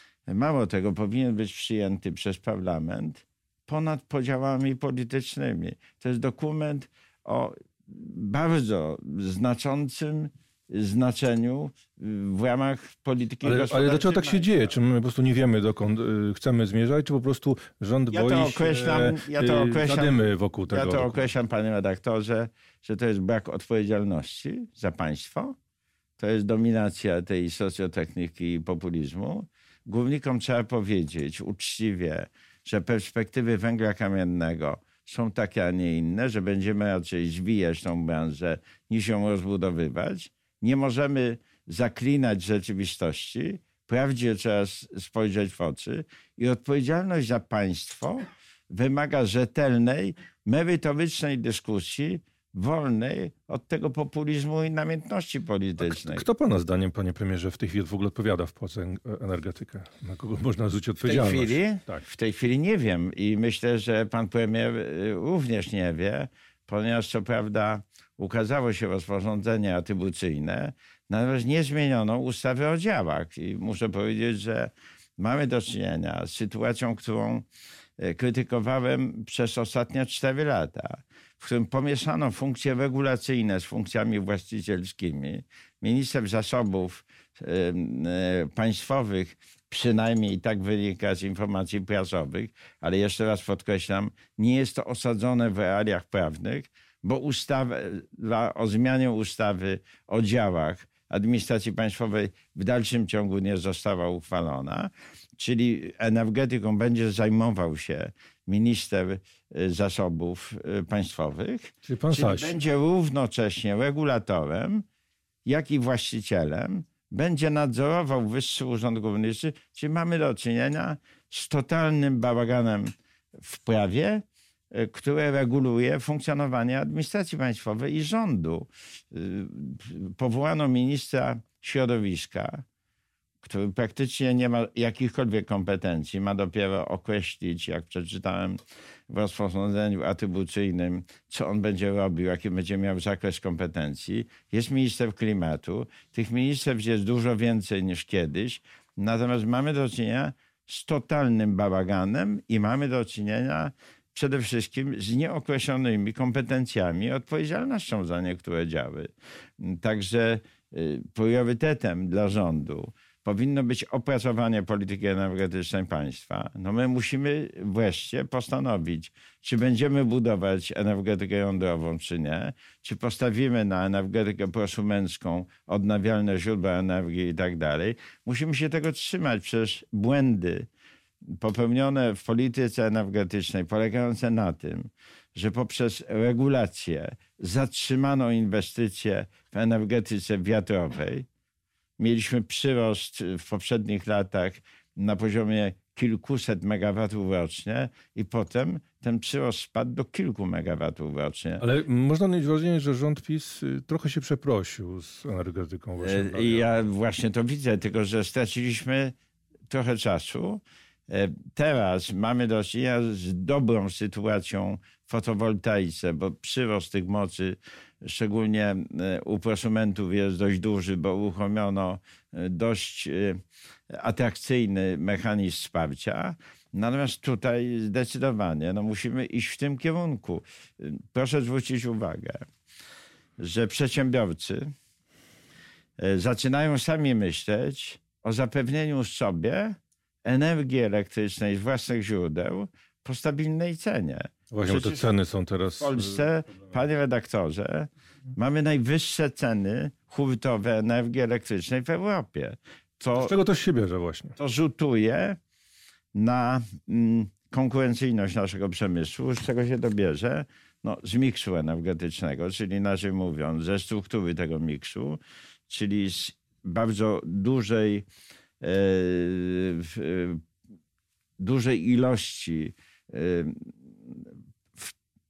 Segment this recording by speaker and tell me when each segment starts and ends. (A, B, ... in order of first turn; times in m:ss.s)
0:00.3-0:14.7 A
0:13.4-0:21.3 B
0:18.1-0:25.6 A
0:26.2-0:56.2 A
0:55.8-1:02.1 B
1:01.0-1:17.5 A
1:18.0-1:54.9 A
1:51.8-1:52.6 B
1:55.5-2:12.6 A
2:13.4-3:00.7 A
3:01.4-3:11.3 A
3:12.0-3:21.6 A
3:21.6-3:26.7 B
3:26.0-3:29.2 A
3:29.7-3:52.5 A
3:53.4-3:54.7 A
3:56.0-4:05.1 A
4:04.5-4:06.2 B
4:05.8-4:13.3 A
4:13.1-4:14.4 B
4:14.4-4:15.4 A
4:16.1-4:28.1 A
4:28.6-4:30.4 A
4:31.4-4:34.9 A